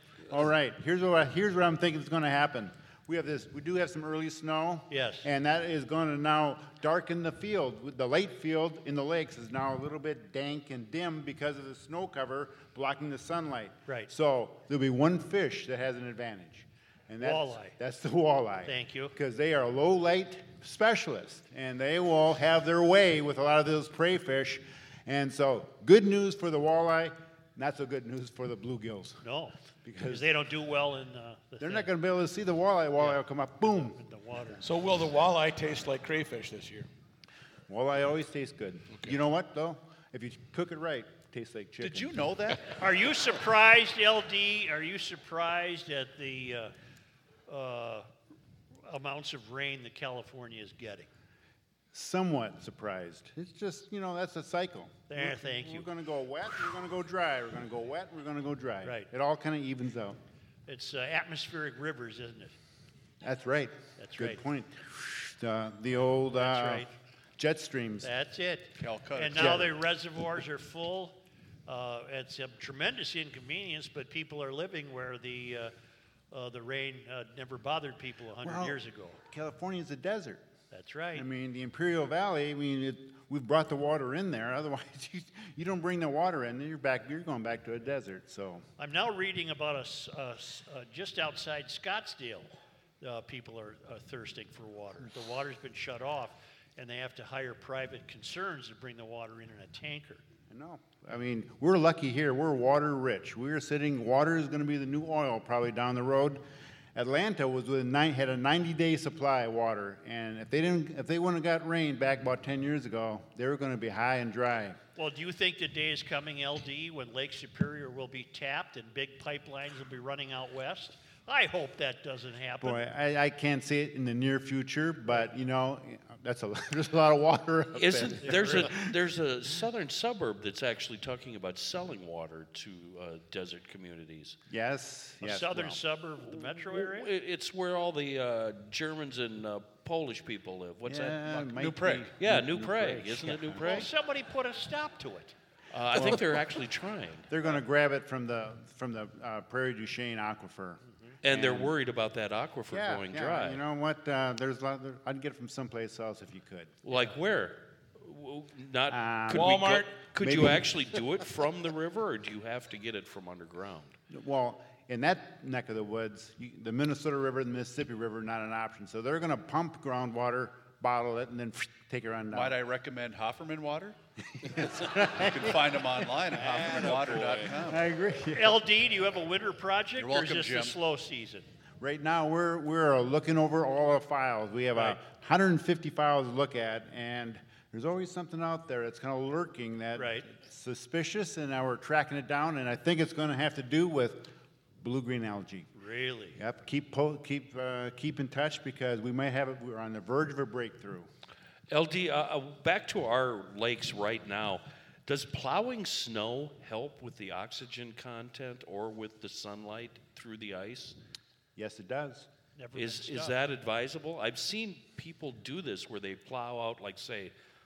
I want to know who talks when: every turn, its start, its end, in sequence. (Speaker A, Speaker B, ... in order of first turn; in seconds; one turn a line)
Speaker A: 0.3-29.2
Speaker B: 4.9-5.3
Speaker B: 17.2-17.8
Speaker B: 18.6-19.1
Speaker B: 29.2-31.9
Speaker A: 29.8-30.3
Speaker A: 31.6-34.0
Speaker B: 33.7-34.6
Speaker C: 34.6-36.9
Speaker A: 37.7-42.2
Speaker D: 41.8-42.7
Speaker B: 42.8-46.7
Speaker B: 47.5-48.1
Speaker B: 48.9-51.1
Speaker A: 51.9-60.2
Speaker B: 55.1-55.9
Speaker B: 58.8-59.1
Speaker B: 60.7-62.5
Speaker A: 63.2-68.1
Speaker B: 64.0-64.4
Speaker B: 66.3-66.9
Speaker B: 68.0-75.7
Speaker D: 68.8-69.7
Speaker A: 69.3-69.7
Speaker B: 76.3-79.2
Speaker A: 78.4-80.4
Speaker B: 80.7-81.3
Speaker A: 81.1-88.7
Speaker B: 88.8-100.2
Speaker A: 100.5-106.4
Speaker A: 107.0-114.8
Speaker B: 115.0-122.8
Speaker A: 122.6-129.0
Speaker E: 127.8-134.4
Speaker B: 128.2-128.7
Speaker A: 134.5-135.8
Speaker B: 135.2-137.1
Speaker E: 136.3-141.5
Speaker A: 140.8-143.9
Speaker D: 141.3-142.1
Speaker E: 142.2-143.9
Speaker B: 143.6-145.3
Speaker E: 145.7-147.3
Speaker A: 145.9-146.6
Speaker A: 147.3-151.8
Speaker E: 151.2-153.6
Speaker A: 152.7-156.7
Speaker E: 156.8-164.0
Speaker A: 158.9-160.7
Speaker C: 159.3-159.9
Speaker A: 164.1-172.6
Speaker D: 172.3-174.0
Speaker A: 174.4-176.1
Speaker D: 175.2-177.8
Speaker E: 176.3-177.6
Speaker A: 177.6-178.6
Speaker B: 178.3-181.5
Speaker D: 180.0-180.8
Speaker A: 181.8-194.3
Speaker B: 189.9-190.3
Speaker A: 194.8-195.7
Speaker B: 195.7-196.4
Speaker A: 196.3-201.1
Speaker E: 201.7-211.0
Speaker A: 211.6-212.3
Speaker B: 212.6-213.4
Speaker E: 212.8-217.3